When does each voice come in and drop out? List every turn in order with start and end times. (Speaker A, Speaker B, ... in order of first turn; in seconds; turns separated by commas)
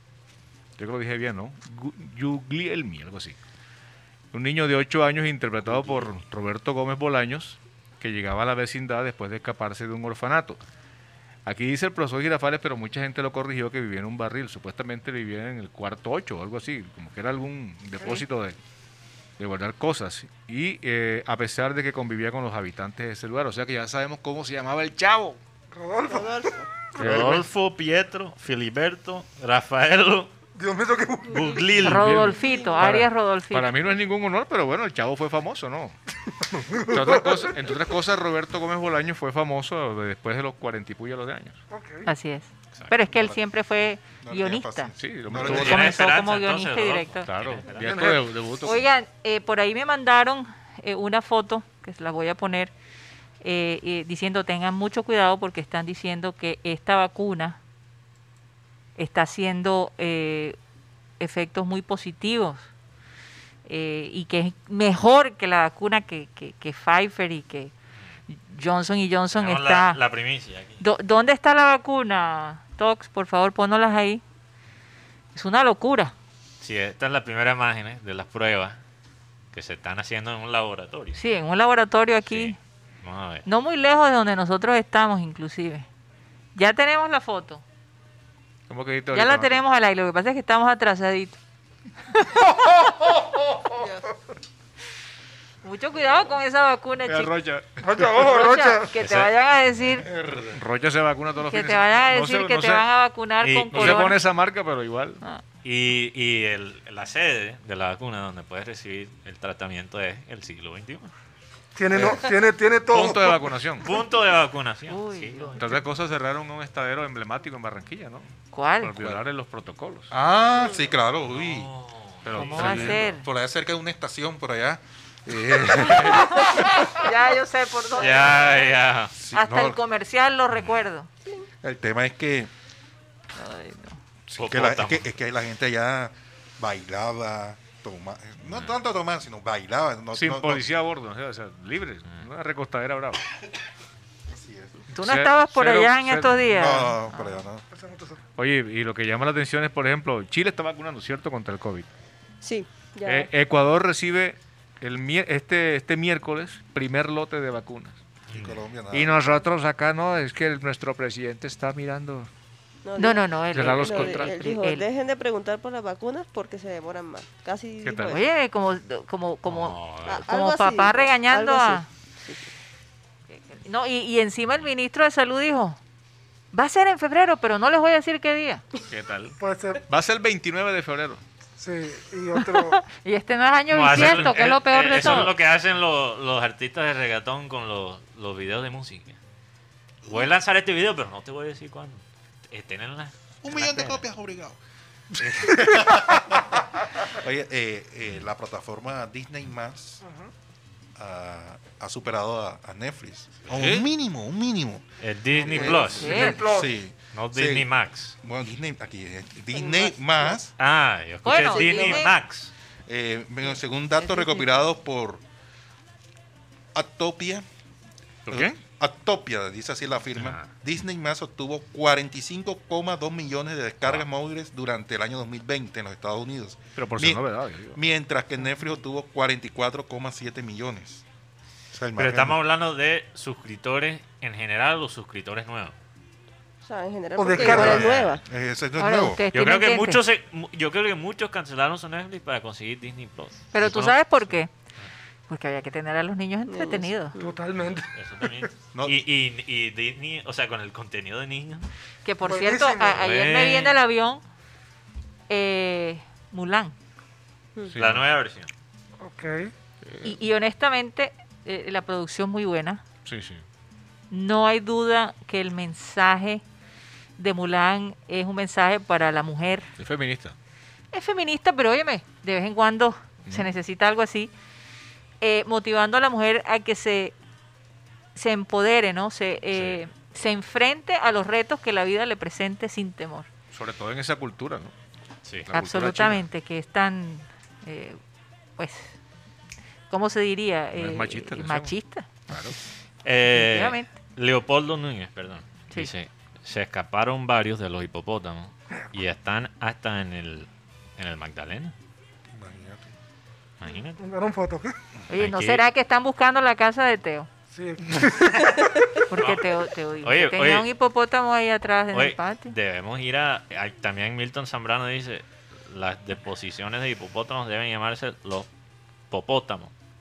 Speaker A: 0.8-3.4, Speaker A: 4.3-10.6, Speaker A: 11.4-18.6, Speaker A: 19.4-25.4, Speaker B: 25.7-26.5, Speaker C: 26.0-26.7, Speaker A: 27.0-27.4, Speaker D: 27.0-30.3, Speaker B: 30.6-31.8, Speaker D: 31.3-32.2, Speaker A: 31.8-35.9, Speaker E: 31.8-33.7, Speaker C: 32.4-32.8, Speaker B: 36.5-37.8, Speaker A: 36.9-41.6, Speaker B: 41.7-42.1, Speaker E: 42.0-47.3, Speaker F: 44.2-45.9, Speaker A: 45.0-46.0, Speaker D: 45.4-48.2, Speaker A: 47.2-48.9, Speaker B: 47.8-48.3, Speaker E: 48.6-52.7, Speaker E: 53.4-57.6, Speaker E: 59.0-60.6, Speaker E: 61.2-62.7, Speaker E: 63.6-67.7, Speaker E: 68.3-70.0, Speaker D: 69.3-70.8, Speaker E: 70.8-74.2, Speaker E: 75.3-76.1, Speaker D: 76.6-78.8, Speaker D: 79.5-81.2, Speaker E: 81.1-82.6, Speaker D: 82.3-83.5, Speaker E: 83.5-85.9, Speaker E: 86.5-87.6, Speaker A: 88.7-89.5, Speaker E: 89.1-91.4, Speaker B: 92.4-93.8, Speaker C: 93.8-94.1, Speaker E: 95.6-97.3, Speaker A: 97.0-98.1, Speaker B: 97.8-98.9, Speaker E: 98.2-100.1, Speaker D: 99.0-99.3, Speaker F: 100.0-100.6, Speaker A: 100.5-102.9, Speaker E: 101.4-104.2, Speaker D: 103.4-104.1, Speaker A: 103.7-105.2, Speaker D: 105.6-111.1, Speaker B: 111.7-113.5, Speaker A: 112.9-113.9, Speaker D: 113.8-115.6, Speaker E: 114.9-115.8, Speaker A: 115.5-118.3, Speaker E: 118.5-119.1, Speaker A: 118.8-120.1, Speaker F: 120.1-121.7, Speaker D: 121.3-123.0, Speaker A: 122.2-123.1, Speaker E: 122.3-123.2, Speaker F: 122.5-126.7, Speaker E: 126.1-128.7, Speaker D: 128.0-129.1, Speaker F: 129.1-129.8, Speaker E: 129.3-131.1, Speaker F: 131.6-132.5, Speaker E: 133.3-134.0, Speaker F: 134.3-140.6, Speaker D: 134.4-135.1, Speaker A: 140.1-143.2, Speaker F: 144.3-144.9, Speaker E: 144.9-147.4, Speaker A: 145.0-146.5, Speaker F: 146.5-147.6, Speaker B: 147.7-148.2, Speaker A: 148.3-151.9, Speaker C: 152.4-153.3, Speaker A: 153.0-158.0, Speaker F: 158.3-159.4, Speaker D: 158.3-158.6, Speaker A: 158.9-162.3, Speaker C: 162.8-168.2, Speaker E: 163.0-164.8, Speaker A: 163.5-164.3, Speaker A: 167.8-168.2, Speaker E: 168.1-171.9, Speaker D: 169.4-170.3, Speaker C: 170.0-172.5, Speaker E: 173.4-175.8, Speaker E: 176.5-178.6, Speaker A: 178.9-181.2, Speaker B: 179.4-179.8, Speaker B: 181.6-182.8, Speaker E: 182.4-185.3, Speaker D: 183.7-189.2, Speaker A: 184.0-184.3, Speaker D: 190.1-194.0, Speaker F: 193.4-194.6, Speaker F: 195.2-200.0, Speaker B: 200.0-200.3, Speaker F: 200.9-207.7, Speaker A: 203.5-203.8, Speaker D: 205.0-206.4, Speaker B: 205.4-206.8, Speaker E: 205.9-206.4, Speaker D: 207.1-208.2, Speaker F: 208.2-210.5, Speaker C: 209.5-210.4, Speaker D: 210.6-212.5, Speaker E: 211.2-212.2, Speaker F: 211.4-212.0, Speaker F: 212.9-215.2, Speaker E: 214.0-214.5, Speaker F: 216.7-217.4, Speaker A: 218.3-218.6, Speaker F: 218.3-227.2, Speaker D: 220.2-220.5, Speaker A: 226.8-227.8, Speaker F: 227.7-231.0, Speaker F: 231.7-232.4, Speaker D: 231.9-235.7, Speaker C: 236.6-238.2, Speaker B: 237.2-237.9, Speaker F: 237.4-239.2, Speaker D: 237.4-238.2, Speaker E: 238.8-240.0, Speaker D: 239.3-244.9, Speaker E: 243.5-244.5, Speaker E: 245.3-247.1, Speaker C: 246.5-247.4, Speaker B: 247.2-248.4, Speaker D: 247.9-251.7, Speaker F: 248.7-249.0, Speaker E: 252.0-254.2, Speaker B: 252.2-253.1, Speaker D: 253.0-253.8, Speaker E: 255.3-256.7, Speaker A: 257.7-258.1, Speaker D: 257.8-258.5, Speaker B: 259.0-259.5, Speaker A: 259.8-260.1, Speaker E: 260.0-262.8, Speaker A: 263.0-263.4, Speaker E: 264.1-266.4, Speaker E: 267.2-269.7, Speaker A: 269.8-270.3, Speaker E: 270.9-274.3, Speaker A: 273.2-273.5, Speaker E: 275.2-277.1, Speaker E: 278.1-283.3, Speaker A: 283.5-284.7, Speaker A: 285.5-286.2, Speaker E: 285.5-288.0, Speaker E: 288.6-289.0, Speaker E: 289.9-292.5, Speaker A: 290.7-291.7, Speaker A: 292.3-292.6, Speaker D: 293.0-301.7, Speaker E: 293.3-293.9, Speaker F: 302.3-302.9, Speaker D: 303.6-304.0, Speaker B: 304.0-304.8, Speaker E: 305.1-307.3, Speaker D: 305.1-305.6, Speaker B: 307.5-308.5, Speaker D: 308.0-309.5, Speaker E: 309.1-312.5, Speaker D: 310.0-310.7, Speaker D: 311.9-318.5, Speaker D: 319.1-319.7